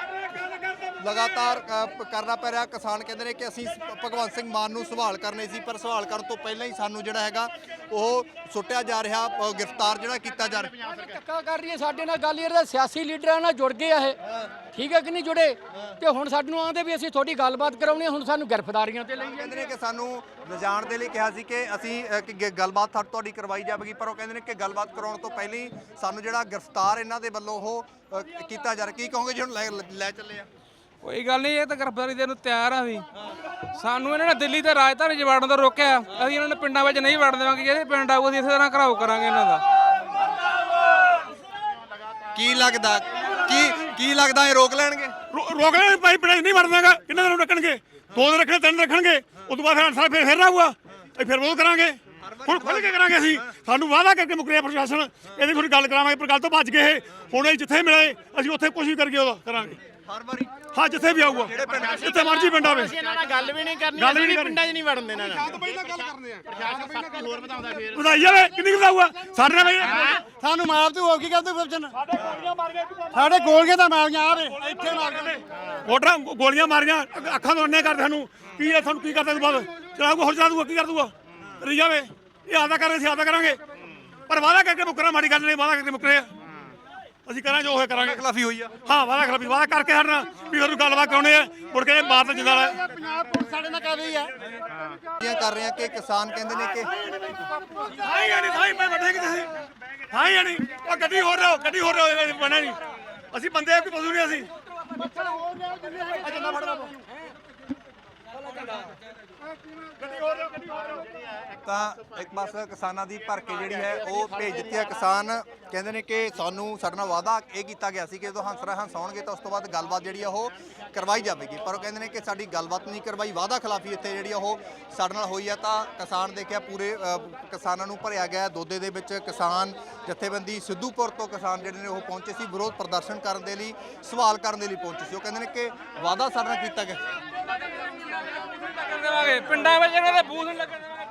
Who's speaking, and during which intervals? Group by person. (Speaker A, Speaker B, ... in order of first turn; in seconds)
Speaker A: 1.0-10.7, 19.3-30.5, 42.3-45.1, 52.2-53.4, 60.0-60.6, 61.3-62.2, 88.0-88.7, 95.2-96.9, 111.6-137.0
Speaker B: 10.5-11.2, 61.6-68.2, 69.8-70.2, 86.5-86.8, 94.7-95.0, 110.9-112.2, 113.6-114.8
Speaker C: 11.0-14.2, 14.7-19.5
Speaker D: 31.0-33.0, 33.8-39.6, 138.0-140.8
Speaker E: 43.4-43.9, 45.3-59.8, 60.7-63.0, 64.0-64.6, 67.9-70.1, 71.9-73.6, 74.7-83.6, 84.3-86.3, 87.2-88.2, 88.8-92.8, 97.9-99.5, 100.1-102.8, 103.3-104.5, 106.2-106.9, 110.0-111.0
Speaker F: 65.8-67.1, 70.1-71.9, 73.1-75.4, 92.4-94.3, 97.3-97.9, 104.9-107.0